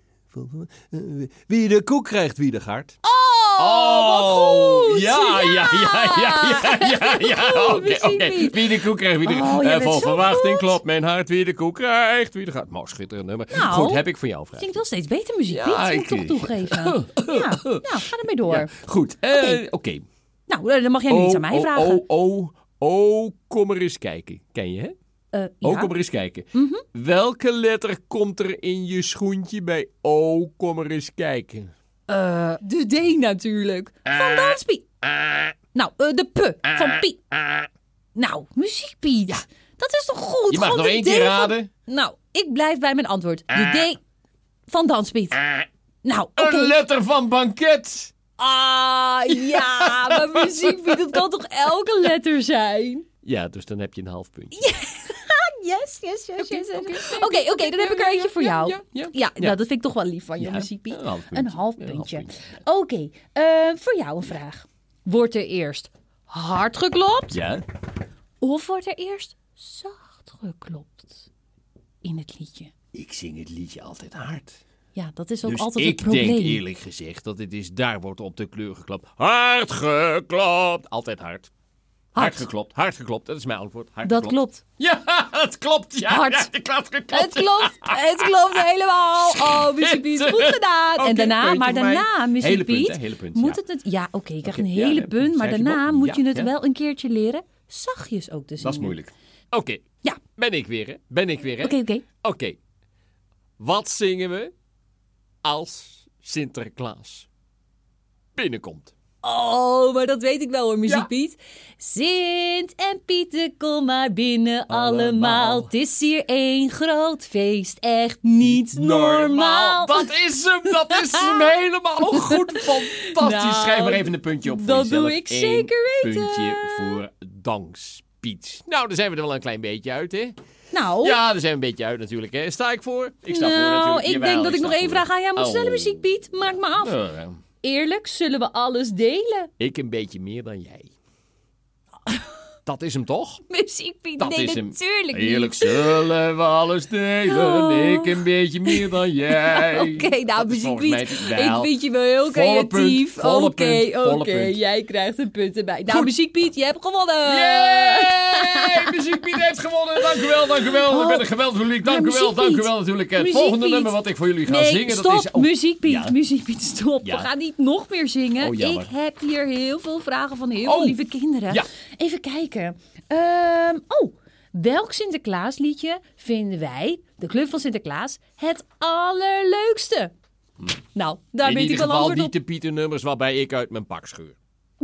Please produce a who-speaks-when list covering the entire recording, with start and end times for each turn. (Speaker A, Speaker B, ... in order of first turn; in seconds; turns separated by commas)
Speaker A: 0.3-3.0, Speaker B: 3.0-10.8, Speaker A: 3.6-14.8, Speaker B: 13.5-18.7, Speaker A: 15.5-20.0, Speaker B: 19.3-19.6, Speaker B: 20.5-22.0, Speaker A: 21.1-24.9, Speaker B: 25.3-25.9, Speaker A: 25.6-31.7, Speaker B: 26.5-26.8, Speaker B: 32.1-34.9, Speaker A: 34.1-35.5, Speaker B: 35.7-37.2, Speaker A: 36.7-37.7, Speaker B: 38.1-44.0, Speaker A: 40.5-41.7, Speaker A: 43.5-43.9, Speaker B: 44.7-45.4, Speaker A: 45.4-45.6, Speaker B: 46.0-46.8, Speaker A: 46.4-48.1, Speaker B: 48.4-53.1, Speaker A: 49.3-51.2, Speaker A: 53.2-54.5, Speaker B: 54.5-67.4, Speaker A: 56.4-59.6, Speaker A: 60.4-62.5, Speaker A: 67.3-67.6, Speaker B: 68.4-71.3, Speaker B: 72.0-72.7, Speaker A: 72.9-74.6, Speaker B: 74.9-76.6, Speaker A: 75.4-81.5, Speaker B: 82.1-82.5, Speaker A: 82.2-93.6, Speaker B: 84.0-84.6, Speaker B: 86.0-86.5, Speaker B: 87.1-99.0, Speaker A: 94.4-96.5, Speaker A: 98.6-99.8, Speaker A: 100.4-102.6, Speaker B: 101.6-102.0, Speaker A: 103.6-104.5, Speaker A: 105.4-107.3, Speaker A: 108.3-108.9, Speaker B: 109.2-120.1, Speaker A: 114.7-115.7, Speaker A: 118.4-130.4, Speaker B: 120.6-127.0, Speaker B: 130.7-131.2, Speaker A: 131.0-136.1, Speaker B: 133.3-137.0, Speaker A: 136.8-137.4, Speaker B: 137.6-139.5, Speaker A: 139.6-140.9, Speaker A: 142.7-143.4, Speaker B: 143.5-146.0, Speaker A: 144.2-151.7, Speaker B: 147.3-159.0, Speaker A: 152.2-154.6, Speaker A: 157.2-166.1, Speaker B: 160.0-161.3, Speaker B: 161.8-180.1, Speaker A: 167.0-167.3, Speaker A: 168.4-168.9, Speaker A: 170.6-170.9, Speaker B: 180.9-182.3, Speaker A: 181.4-184.4